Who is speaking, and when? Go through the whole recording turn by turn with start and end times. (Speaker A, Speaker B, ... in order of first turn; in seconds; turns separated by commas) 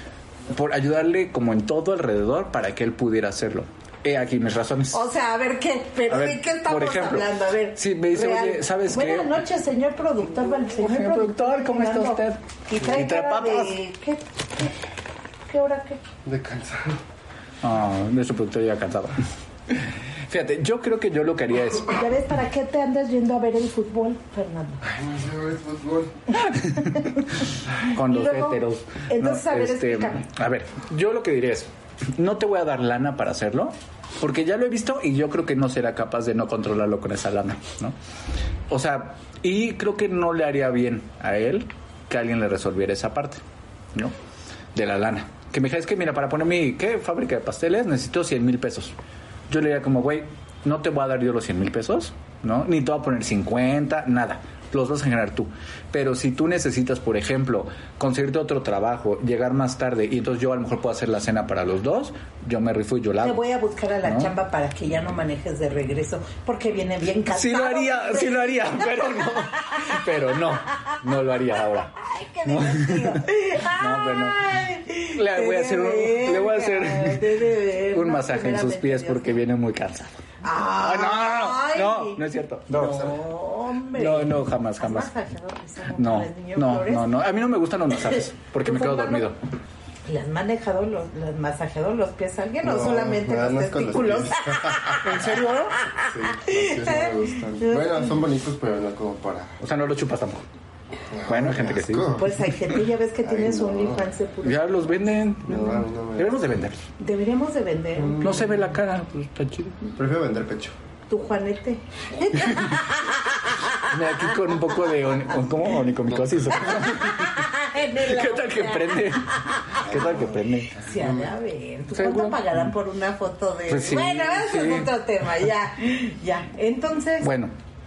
Speaker A: 0.5-5.0, Speaker B: 4.9-14.8, Speaker A: 6.1-9.4, Speaker A: 10.8-13.7, Speaker B: 15.5-16.0, Speaker C: 16.2-17.0, Speaker A: 17.6-22.0, Speaker B: 21.8-24.8, Speaker C: 24.8-26.2, Speaker A: 26.3-38.0, Speaker B: 26.5-27.1, Speaker B: 27.9-30.2, Speaker A: 38.7-43.4, Speaker A: 44.7-49.0, Speaker A: 49.5-63.4, Speaker B: 63.2-70.0, Speaker A: 64.0-64.3, Speaker A: 67.3-71.9, Speaker B: 72.0-79.4, Speaker A: 72.5-74.5, Speaker A: 75.1-80.2, Speaker B: 80.4-87.1, Speaker A: 80.8-83.1, Speaker A: 83.9-85.1, Speaker A: 85.9-89.3, Speaker B: 88.6-89.3, Speaker B: 90.0-98.1, Speaker C: 92.6-95.0, Speaker A: 95.0-95.7, Speaker C: 96.1-99.5, Speaker A: 99.6-100.5, Speaker C: 101.1-102.3, Speaker A: 101.2-102.4, Speaker B: 102.1-104.9, Speaker C: 103.2-104.0, Speaker A: 104.4-106.8, Speaker C: 105.5-106.3, Speaker B: 107.0-108.4, Speaker C: 108.0-108.3, Speaker A: 108.2-109.8, Speaker C: 109.9-110.7, Speaker B: 111.1-113.5, Speaker A: 113.9-117.5, Speaker B: 116.6-120.0, Speaker A: 118.0-120.7, Speaker C: 119.8-120.3, Speaker B: 120.8-127.3, Speaker C: 120.9-121.2, Speaker A: 121.9-122.7, Speaker A: 123.7-124.9, Speaker A: 127.2-127.5